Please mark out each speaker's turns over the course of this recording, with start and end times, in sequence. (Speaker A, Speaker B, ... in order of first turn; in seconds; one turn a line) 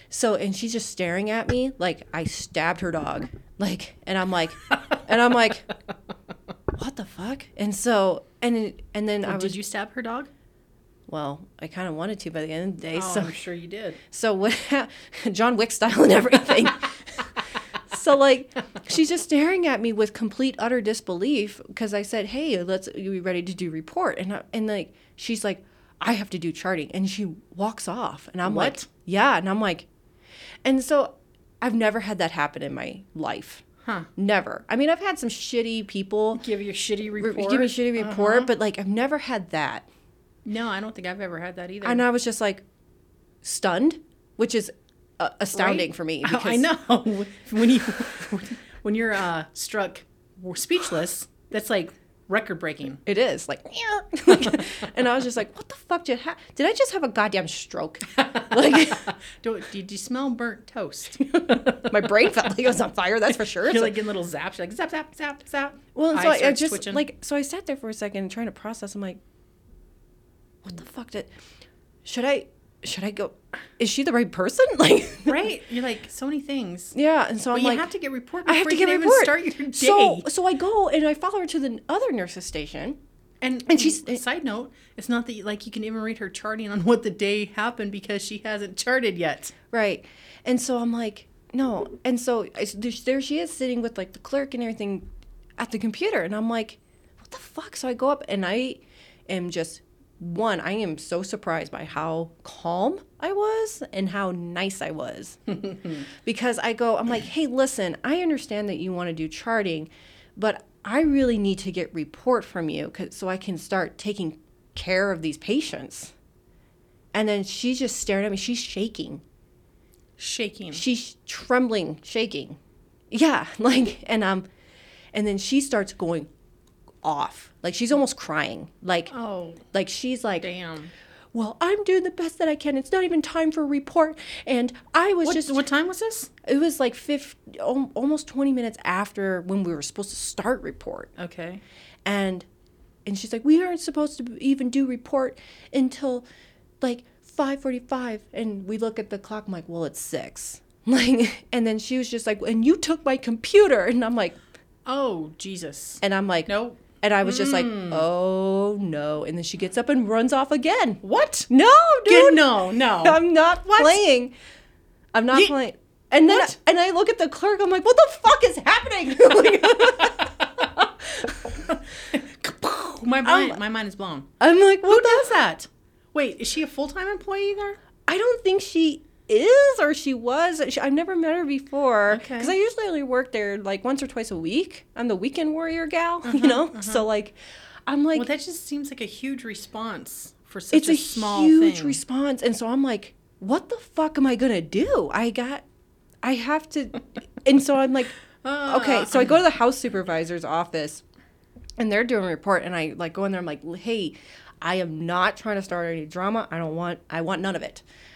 Speaker A: 0.1-5.7
Speaker A: 6.7-9.6
Speaker B: 9.2-10.3
Speaker A: 11.1-13.3
Speaker B: 12.9-14.0
Speaker A: 14.1-17.3
Speaker A: 17.9-29.9
Speaker B: 28.4-28.9
Speaker A: 30.6-33.6
Speaker A: 34.1-36.4
Speaker B: 36.4-38.5
Speaker A: 37.2-39.9
Speaker B: 40.5-42.0
Speaker A: 41.8-42.6
Speaker A: 43.4-46.7
Speaker B: 45.5-53.0
Speaker A: 53.0-59.1
Speaker B: 58.2-61.9
Speaker A: 61.3-64.0
Speaker B: 63.3-67.0
Speaker A: 65.9-69.2
Speaker A: 70.6-71.3
Speaker A: 72.0-75.5
Speaker B: 75.2-76.9
Speaker A: 76.9-77.9
Speaker B: 77.5-80.3
Speaker A: 78.4-83.0
Speaker B: 83.4-89.5
Speaker A: 83.7-84.2
Speaker A: 89.7-105.6
Speaker A: 106.2-116.1
Speaker A: 117.1-119.2
Speaker B: 120.2-120.8
Speaker A: 120.7-122.6
Speaker A: 123.1-124.5
Speaker A: 125.1-126.3
Speaker A: 127.0-129.1
Speaker B: 129.1-129.6
Speaker A: 129.7-130.5
Speaker B: 130.4-130.9
Speaker A: 131.3-135.6
Speaker B: 135.2-136.3
Speaker A: 136.4-141.1
Speaker B: 141.2-141.6
Speaker A: 142.0-142.5
Speaker A: 143.0-146.2
Speaker A: 146.8-154.4
Speaker B: 154.8-158.1
Speaker A: 156.0-164.3
Speaker B: 161.0-161.5
Speaker B: 162.1-164.0
Speaker A: 165.1-171.3
Speaker B: 166.3-166.5
Speaker B: 169.5-170.7
Speaker B: 171.7-174.3
Speaker A: 173.2-173.6
Speaker A: 174.4-175.3
Speaker B: 174.8-177.8
Speaker A: 178.1-188.3
Speaker B: 182.1-182.5
Speaker B: 186.2-187.1
Speaker B: 188.1-192.0
Speaker A: 190.7-195.6
Speaker A: 196.2-201.0
Speaker B: 198.4-199.4
Speaker A: 201.8-207.8